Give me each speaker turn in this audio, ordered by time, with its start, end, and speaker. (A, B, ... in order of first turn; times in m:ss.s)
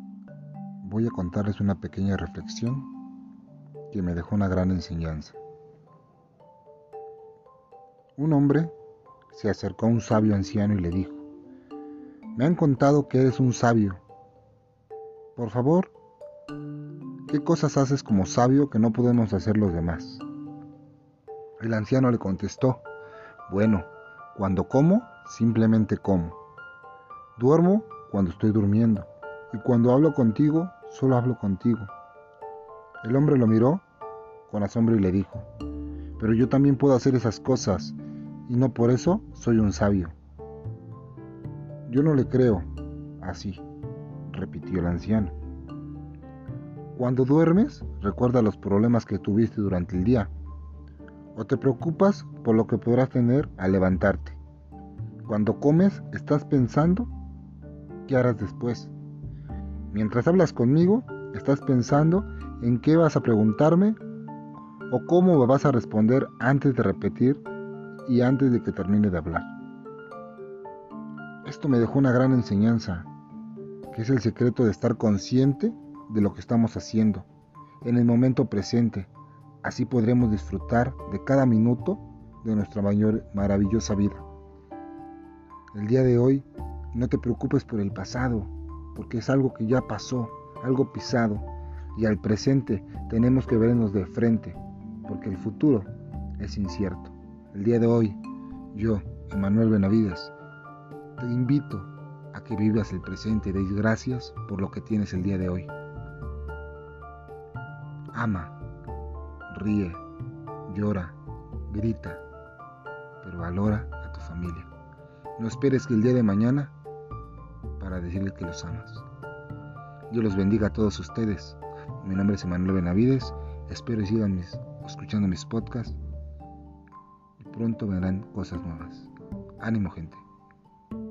0:00.8-0:02.9 A
0:03.9-0:05.4 A
0:08.2-0:08.7 A
0:09.3-0:11.2 A
0:12.4-0:14.0 A
0:15.4-0:15.9 A
0:17.3-0:20.2 A
0:21.6-0:22.8 A
0:23.5-0:26.4 A
0:27.4-0:31.9 A
0:33.0-0:33.8 A
0:34.5-0:35.5 A
0:36.2-0:40.2 A
0:41.9-0:42.7 A
0:43.2-0:43.6 A
0:44.3-0:45.4 A
0:47.0-0:50.3 A
0:51.4-0:54.4 A
0:55.2-0:57.1 A
0:58.1-0:58.9 A
0:59.9-1:04.0 A
1:04.9-1:07.4 A
1:08.0-1:09.5 A
1:11.4-1:13.1 A
1:13.9-1:17.3 A
1:17.8-1:19.1 A
1:19.6-1:24.2 A
1:25.7-1:38.2 A
1:38.7-1:40.3 A
1:41.2-1:45.7 A
1:48.1-1:48.6 A
1:49.5-1:50.0 A
1:50.7-1:51.2 A
1:51.7-1:52.2 A
1:53.2-1:54.7 A
1:55.4-1:56.7 A
1:57.8-1:59.1 A
2:00.1-2:06.0 A
2:07.4-2:10.2 A